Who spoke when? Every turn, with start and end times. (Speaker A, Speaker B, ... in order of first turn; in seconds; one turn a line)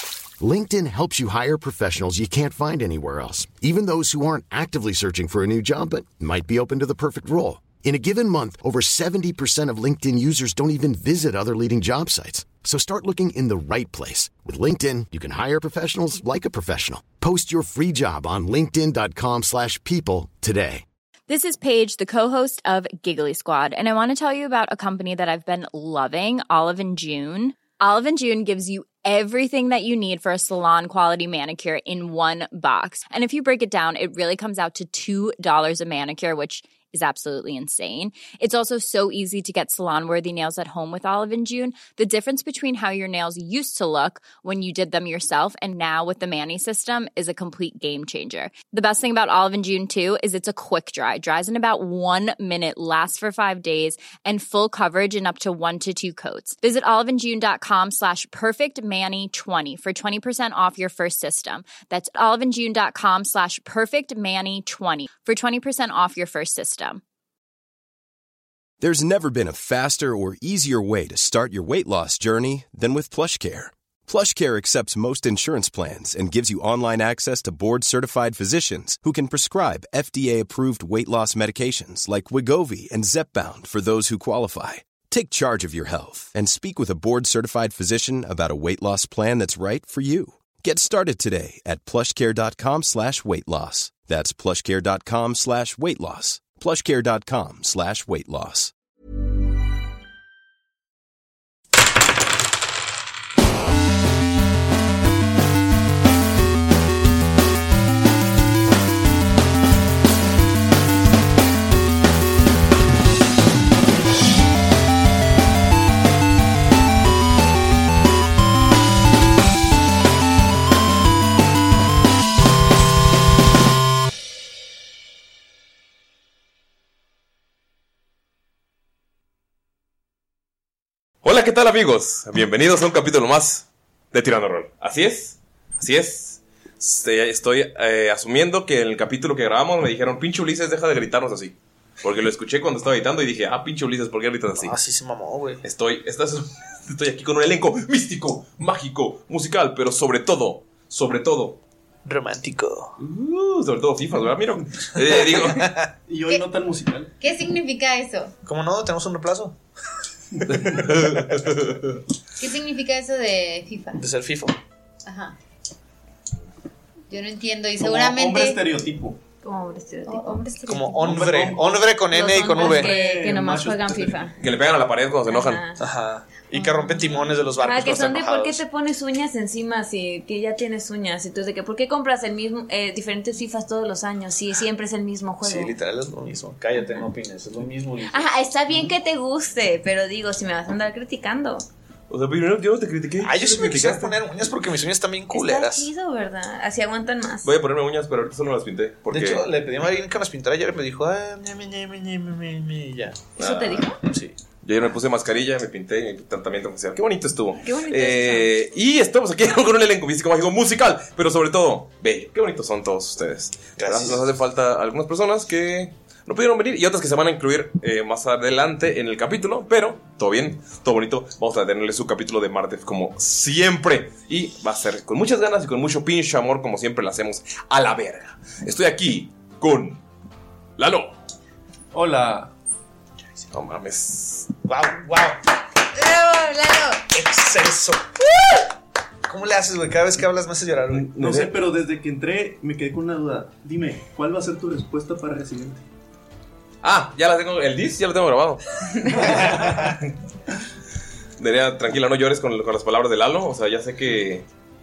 Speaker A: 0.4-20.8
Speaker B: 21.3-67.0
Speaker C: 68.8-98.7
Speaker D: 131.2-144.7
Speaker E: 144.6-145.6
Speaker D: 145.6-151.6
Speaker E: 152.0-152.9
Speaker D: 153.0-155.7
Speaker E: 155.0-155.9
Speaker F: 156.1-157.1
Speaker G: 157.2-158.3
Speaker E: 158.4-159.6
Speaker D: 160.5-161.8
Speaker G: 162.4-164.0
Speaker E: 163.9-164.5
Speaker G: 165.1-165.3
Speaker G: 167.1-168.6
Speaker F: 167.8-169.2
Speaker H: 169.4-170.4
Speaker G: 170.1-171.2
Speaker E: 170.7-172.9
Speaker F: 171.1-174.2
Speaker H: 172.1-174.3
Speaker D: 174.4-175.6
Speaker H: 175.3-175.8
Speaker E: 175.8-178.6
Speaker H: 177.6-185.8
Speaker E: 185.4-188.3
Speaker H: 188.1-191.6
Speaker D: 192.1-194.1
Speaker E: 193.2-195.9
Speaker H: 195.3-197.5
Speaker D: 197.4-199.4
Speaker E: 199.1-203.3
Speaker D: 203.4-203.9
Speaker H: 203.4-204.0
Speaker E: 204.0-204.3
Speaker D: 204.6-230.0
Speaker H: 207.6-208.5
Speaker E: 213.8-214.2
Speaker D: 230.8-231.1
Speaker F: 231.9-232.5
Speaker D: 233.5-234.5
Speaker E: 234.6-235.4
Speaker G: 235.9-237.0
Speaker E: 237.1-238.0
Speaker E: 239.3-241.1
Speaker D: 240.9-241.5
Speaker F: 241.2-245.8
Speaker D: 246.8-249.8
Speaker E: 249.2-249.9
Speaker D: 251.4-254.4